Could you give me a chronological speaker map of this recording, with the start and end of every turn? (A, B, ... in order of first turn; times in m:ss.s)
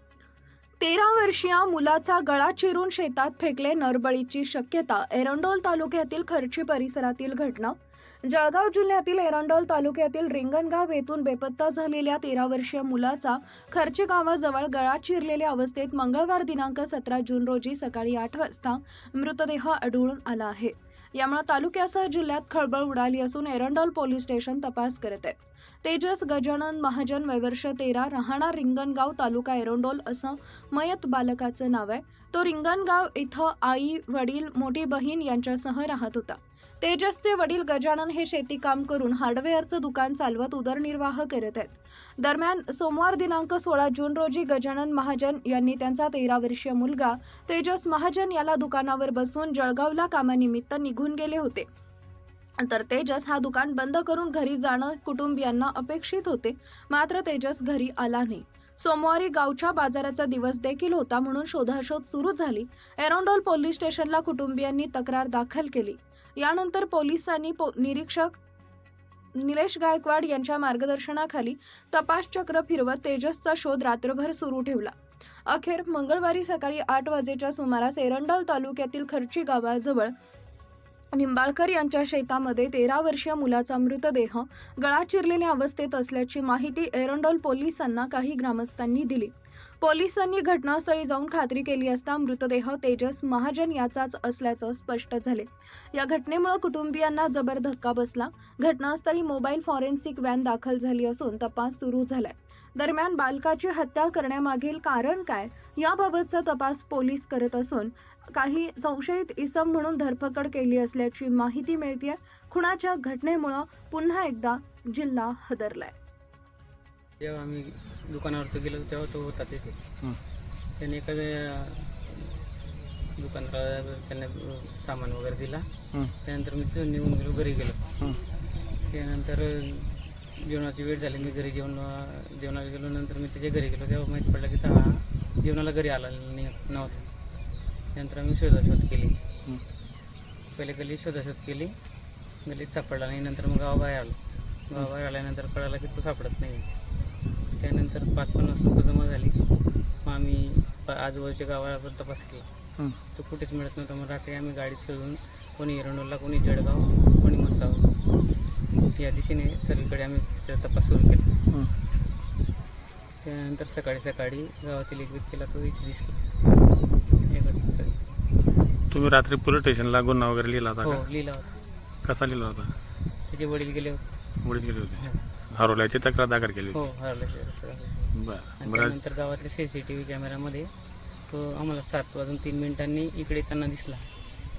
0:00.8-0:51.7 A
0:52.6-1:08.4 A
1:09.4-1:14.9 A
1:15.5-1:20.1 A
1:21.1-1:55.9 A
1:57.2-1:59.8 B
2:00.8-2:02.3 B
2:03.2-2:05.7 B
2:06.2-2:07.9 B
2:08.9-2:17.1 B
2:18.0-2:19.2 B
2:20.6-2:21.8 B
2:22.4-2:26.7 B
2:27.6-2:29.4 B
2:30.0-2:32.5 B
2:33.1-2:37.9 B
2:39.0-2:41.3 B
2:43.2-2:46.2 B
2:47.2-2:48.1 B
2:48.9-2:51.0 C
2:50.8-2:51.6 B
2:52.0-2:52.7 C
2:53.3-2:54.0 B
2:54.4-2:56.8 C
2:55.0-2:55.3 B
2:56.7-3:00.7 B
2:58.2-2:59.0 C
3:01.3-3:04.1 B